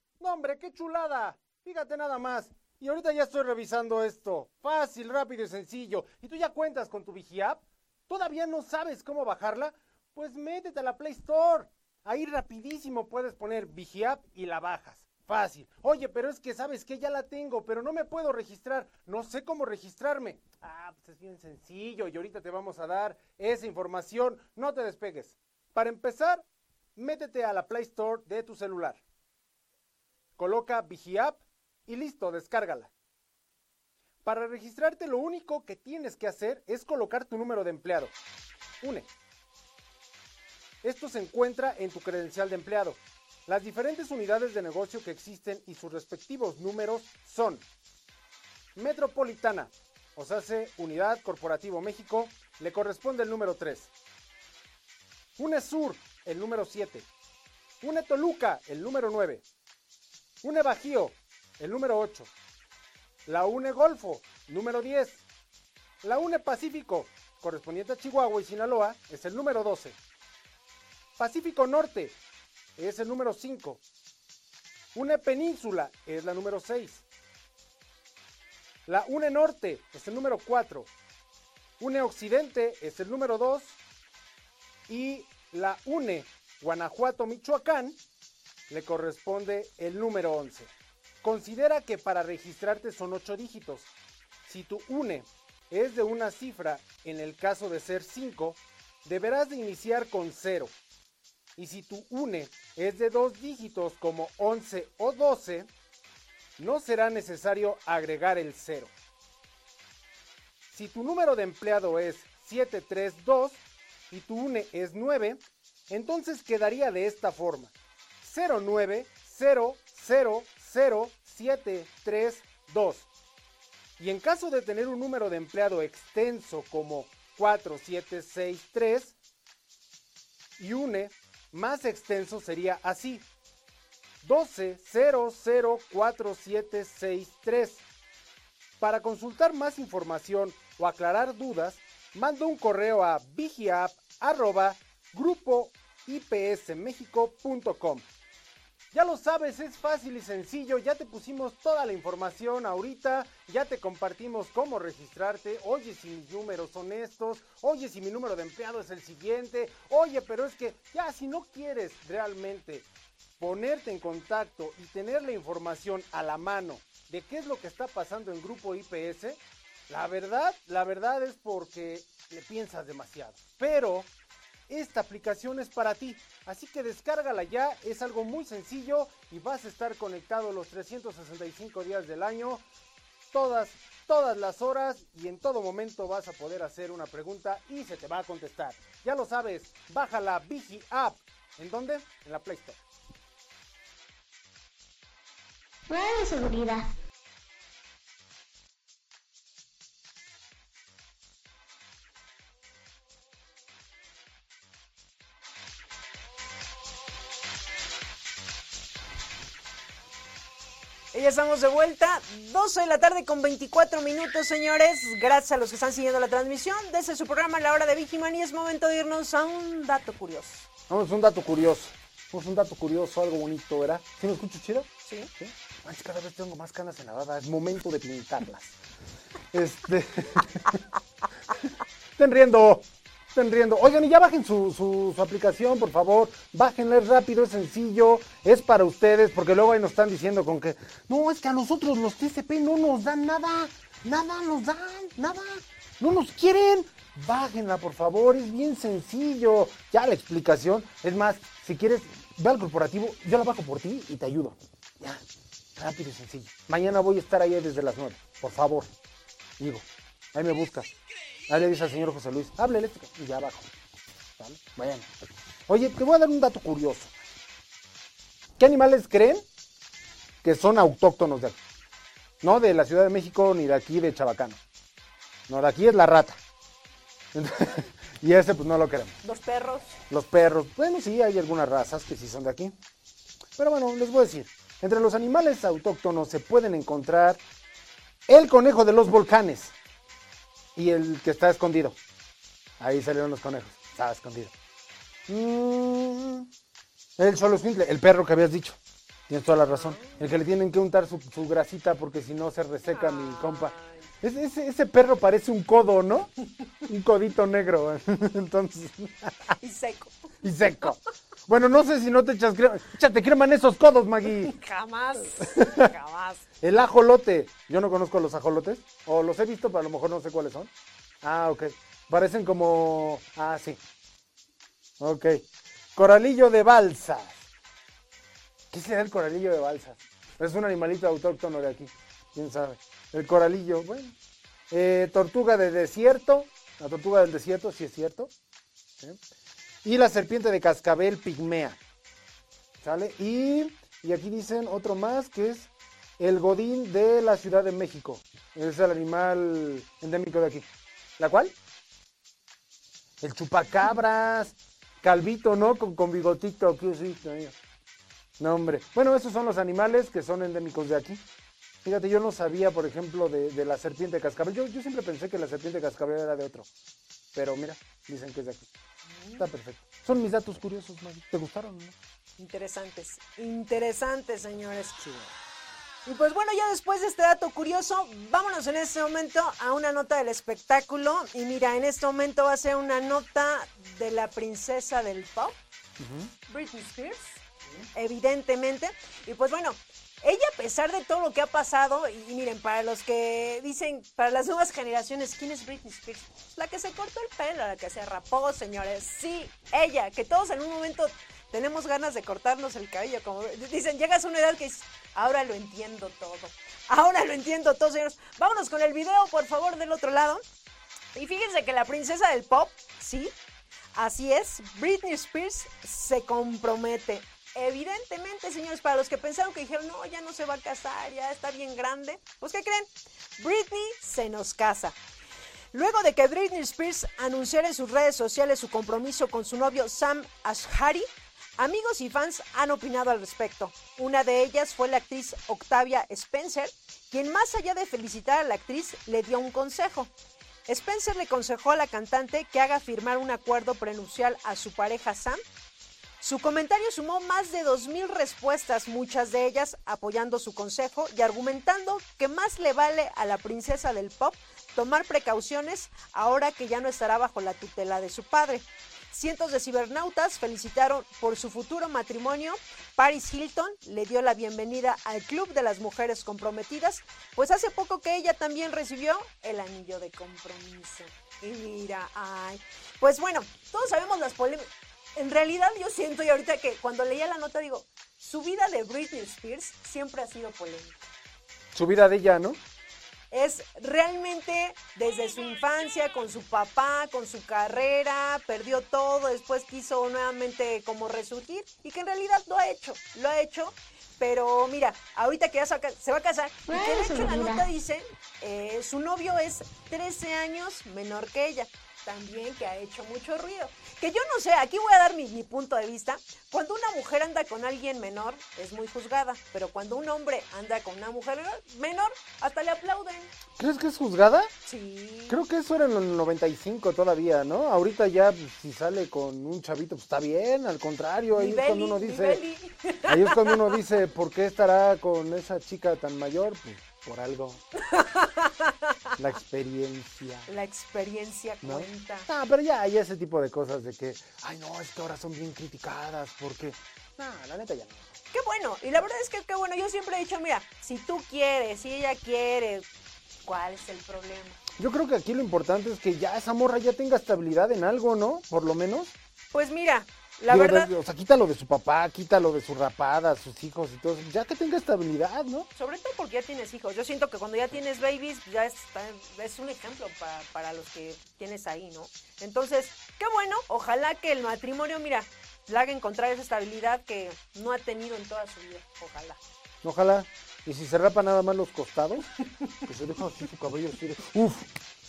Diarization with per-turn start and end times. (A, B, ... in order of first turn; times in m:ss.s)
0:00.2-0:29.0 A
0:30.4-0:32.9 A
0:34.2-0:38.1 A
0:38.8-0:39.1 A
0:40.8-0:47.7 A
0:48.8-0:53.9 A
0:55.4-0:57.1 A
0:57.8-0:59.4 A
1:00.4-1:02.3 A
1:03.3-1:05.2 A
1:06.0-1:10.0 A
1:11.2-1:12.2 A
1:12.8-1:13.8 A
1:15.0-1:17.0 A
1:18.9-1:20.9 A
1:21.8-1:23.8 A
1:24.9-1:28.0 A
1:28.7-1:33.9 A
1:34.5-1:40.7 A
1:41.6-1:45.7 A
1:46.6-1:48.9 A
1:50.7-2:03.1 A
2:04.0-2:09.2 A
2:10.6-2:13.3 A
2:14.2-2:17.8 A
2:18.8-2:28.1 A
2:28.9-2:42.9 A
2:43.4-2:54.1 A
2:54.7-3:02.6 A
3:03.3-3:12.8 A
3:15.9-3:16.9 B
3:31.1-3:40.7 C
3:40.9-3:48.8 A
3:45.0-3:45.3 C
3:49.5-3:50.8 A
3:52.2-4:15.2 A
4:15.8-4:18.9 A
4:19.6-4:20.9 A
4:21.5-4:23.7 A
4:24.2-4:25.1 A
4:25.7-4:27.3 A
4:28.6-4:29.4 A
4:30.4-4:31.6 A
4:32.4-4:34.6 A
4:35.5-4:36.4 A
4:37.3-4:39.2 A
4:39.2-4:40.0 C
4:40.1-4:42.8 A
4:43.6-4:47.4 A
4:48.3-4:49.7 A
4:50.8-4:52.0 A
4:52.8-4:54.5 A
4:55.3-4:56.5 A
4:57.2-5:06.3 A
4:59.7-5:00.2 C
5:02.9-5:04.1 C
5:06.9-5:09.5 A
5:09.6-5:10.2 C
5:10.4-5:14.6 A
5:14.5-5:16.4 C
5:15.4-5:15.9 A
5:16.6-5:20.7 A
5:21.2-5:23.8 A
5:25.0-5:27.5 A
5:28.7-5:34.2 A
5:34.7-5:38.3 A
5:39.8-5:41.8 A
5:42.8-5:50.7 A
5:51.2-5:51.6 A
5:53.2-5:57.6 A
5:58.4-6:01.2 A
6:01.8-6:06.7 A
6:07.3-6:08.7 A
6:09.1-6:09.5 C
6:09.4-6:12.0 A
6:12.4-6:15.0 C
6:15.0-6:15.3 A
6:16.0-6:25.6 C
6:26.0-6:26.3 A
6:26.5-6:27.4 C
6:27.9-6:50.4 C
6:51.1-6:53.3 C
6:53.9-7:05.0 C
7:05.7-7:20.1 C
7:20.7-7:25.4 C
7:26.2-8:01.1 C
8:01.7-8:02.6 A
8:03.3-8:33.3 C
8:16.7-8:17.7 B
8:33.6-8:34.5 A
8:34.7-8:35.4 C
8:35.3-8:42.4 A
8:41.3-8:43.8 C
8:43.1-8:47.6 A
8:47.9-8:49.0 C
8:49.2-8:50.5 A
8:50.5-8:52.3 C
8:51.6-8:58.1 A
8:58.3-9:02.9 C
9:03.4-9:04.6 C
9:04.8-9:09.2 A
9:09.5-9:10.9 C
9:10.5-9:15.7 A
9:15.8-9:29.4 C
9:29.8-9:32.3 A
9:32.9-9:34.7 A